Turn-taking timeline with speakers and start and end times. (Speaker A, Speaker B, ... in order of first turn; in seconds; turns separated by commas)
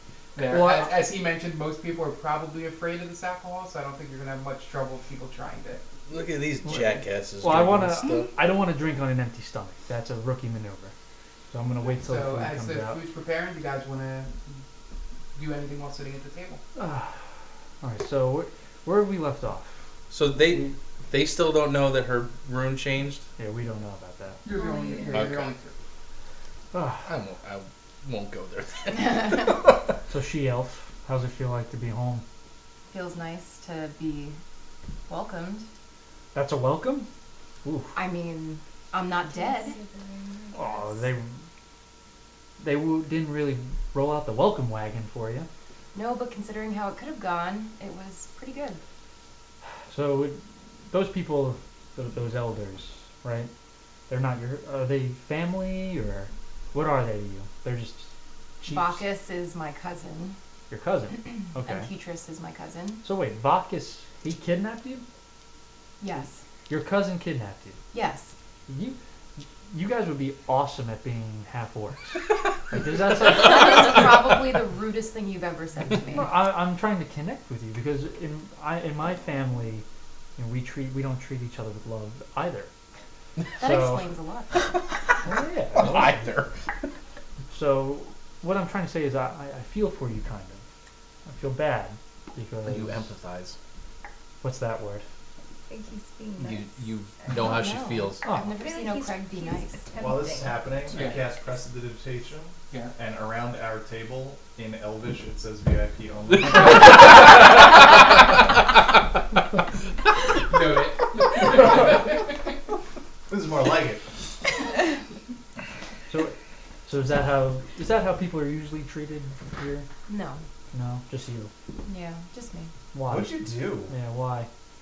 Speaker A: 0.3-5.8, Speaker B: 0.5-0.9, Speaker C: 6.1-8.3, Speaker B: 6.6-10.9, Speaker B: 11.5-13.0, Speaker A: 11.9-14.5, Speaker A: 15.3-16.6, Speaker B: 16.8-17.2, Speaker B: 17.8-19.7, Speaker C: 20.1-23.2, Speaker B: 20.5-20.7, Speaker B: 23.4-24.4, Speaker A: 24.4-25.7, Speaker D: 24.5-25.2, Speaker C: 25.1-25.5, Speaker B: 26.7-27.1, Speaker C: 27.0-29.7, Speaker B: 30.1-32.2, Speaker E: 32.9-34.4, Speaker E: 35.1-35.6, Speaker B: 36.3-37.1, Speaker B: 37.6-37.9, Speaker E: 37.9-39.8, Speaker D: 39.2-41.1, Speaker B: 40.5-41.4, Speaker B: 42.6-45.5, Speaker E: 45.9-48.8, Speaker B: 49.9-50.4, Speaker B: 50.9-53.5, Speaker B: 54.1-58.1, Speaker B: 58.6-59.0, Speaker E: 58.6-60.4, Speaker B: 60.7-61.9, Speaker E: 61.6-63.0, Speaker B: 63.0-65.0, Speaker E: 66.0-66.4, Speaker B: 66.7-67.8, Speaker E: 67.9-68.3, Speaker B: 68.7-74.1, Speaker E: 73.2-76.3, Speaker B: 76.1-79.8, Speaker B: 80.4-82.7, Speaker E: 83.6-84.6, Speaker B: 83.6-84.1, Speaker B: 85.2-86.3, Speaker C: 85.8-86.5, Speaker B: 87.5-90.6, Speaker B: 91.2-93.1, Speaker C: 92.6-93.5, Speaker B: 94.4-95.0, Speaker D: 95.7-97.5, Speaker C: 96.4-98.2, Speaker E: 97.3-99.8, Speaker B: 98.2-98.5, Speaker D: 98.5-101.0, Speaker F: 100.0-107.0, Speaker A: 100.9-101.2, Speaker A: 110.5-112.3, Speaker F: 113.3-114.1, Speaker B: 116.1-116.3, Speaker B: 116.8-119.9, Speaker E: 120.1-120.4, Speaker B: 120.7-121.5, Speaker E: 121.8-122.7, Speaker B: 122.9-124.5, Speaker F: 123.1-123.9